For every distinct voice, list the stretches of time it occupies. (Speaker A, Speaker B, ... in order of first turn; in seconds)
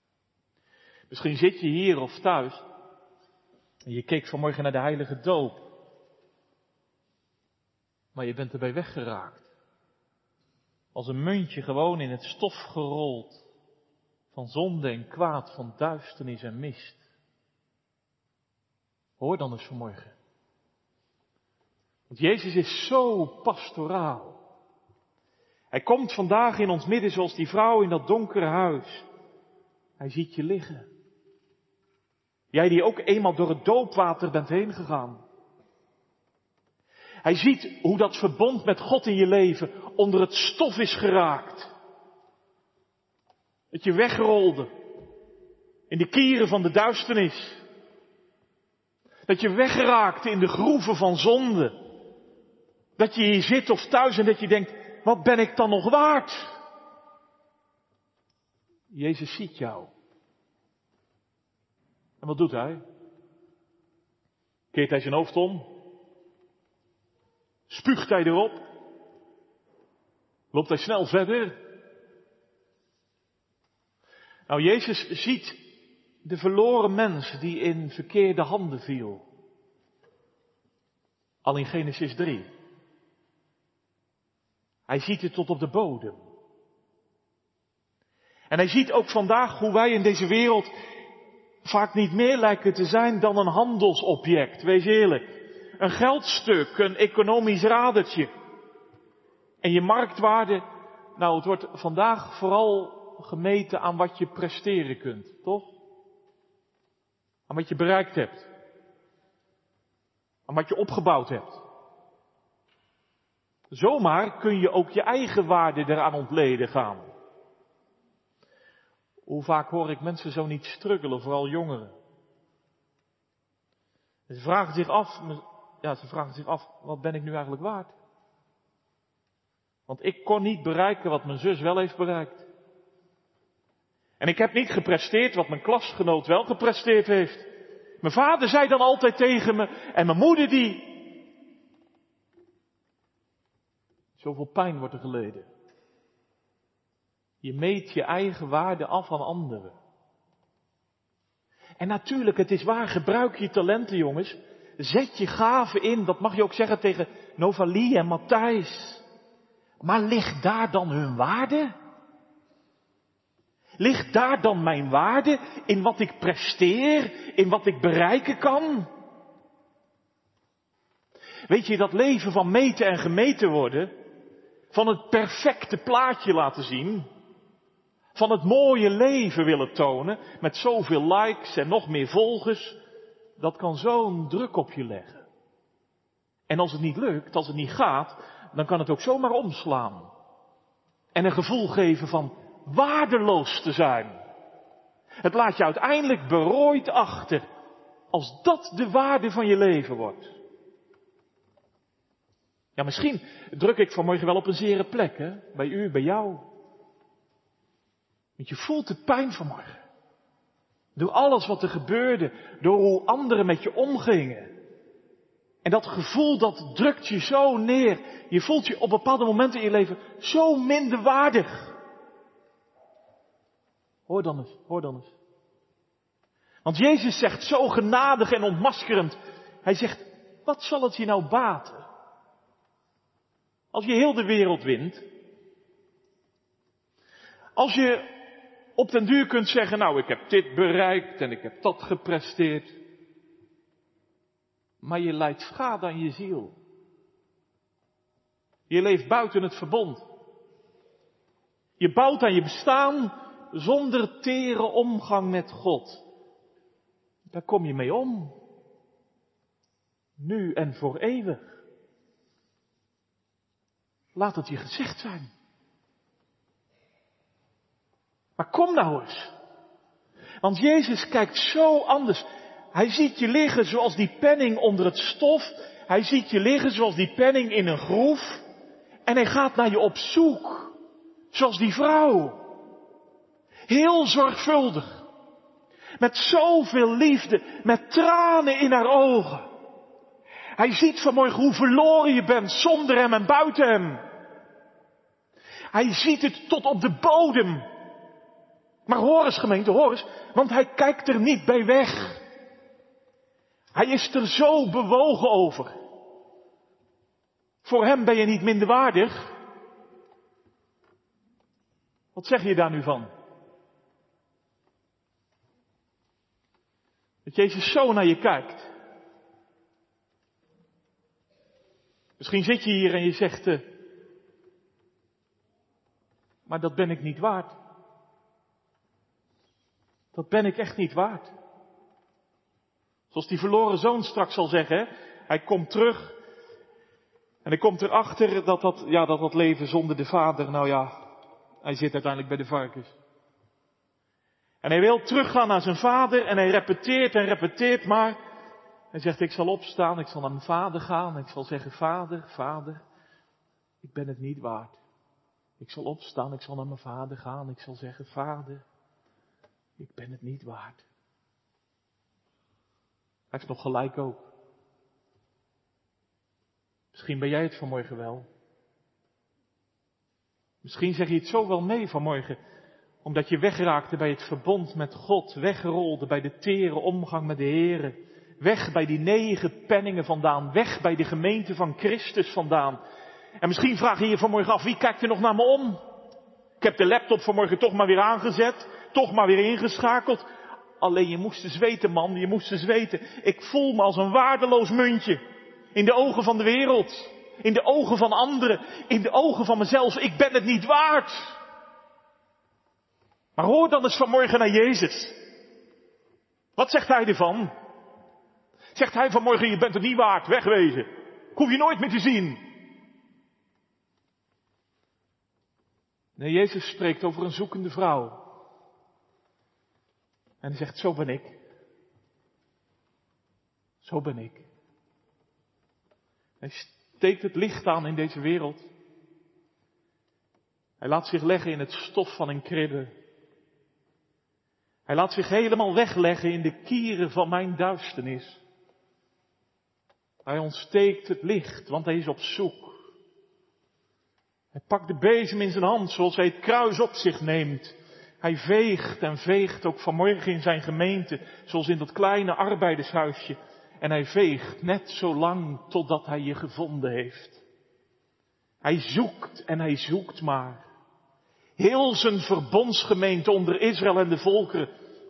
Speaker A: 1.1-2.6, 3.8-5.6, 8.1-9.5, 10.9-13.4, 14.3-17.0, 19.2-20.1, 22.1-24.4, 25.7-29.1, 30.0-30.9, 32.5-35.2, 37.2-41.7, 43.7-44.7, 45.9-47.6, 49.3-51.8, 53.0-56.5, 58.9-59.9, 62.2-62.8, 64.7-65.7, 67.7-68.6, 70.5-71.6, 74.5-75.7, 76.2-79.2, 81.4-82.5, 84.9-86.2, 88.5-90.7, 91.6-98.3, 99.6-100.6, 101.2-105.8, 107.5-108.5, 110.5-111.6, 113.7-117.1, 119.2-121.9, 124.3-127.9, 129.9-132.5, 134.2-137.5, 138.0-141.1, 144.2-145.5, 147.4-149.8, 151.8-159.0, 159.8-161.7, 163.8-168.9, 171.5-173.9, 174.7-177.1, 178.1-182.8, 183.4-185.3, 186.5-190.1, 191.1-194.2, 195.2-197.4, 198.1-200.3, 202.8-206.5, 208.4-209.8, 210.9-214.5, 215.6-221.8, 224.1-225.2, 226.6-231.9, 233.7-235.1, 237.6-238.1, 238.8-242.8, 244.8-246.6, 248.7-250.0, 251.8-256.0, 257.3-258.3, 260.2-261.4, 264.1-265.3, 268.4-269.3, 270.4-278.4, 279.1-280.7, 281.3-282.4, 283.7-285.1, 286.0-289.5, 290.6-294.0, 295.7-297.6, 298.9-302.2, 303.7-305.8, 307.6-309.3, 312.1-313.1, 317.2-318.7, 322.2-323.6, 326.4-327.5, 330.1-331.3, 333.1-336.2, 337.4-340.9, 341.6-342.9, 344.6-348.2, 348.9-352.8, 353.8-354.8, 355.6-358.6, 359.8-360.8, 363.3-364.3, 366.9-368.3, 370.6-372.4, 373.0-382.8, 383.4-385.8, 386.6-390.2, 390.8-395.2, 395.7-401.4, 403.4-405.2, 406.6-407.5, 408.7-412.4, 416.2-418.2, 420.4-421.4, 423.8-424.5, 426.4-428.7, 430.8-432.9, 434.9-438.4, 440.2-442.8, 444.5-457.4, 458.6-460.6, 461.6-464.7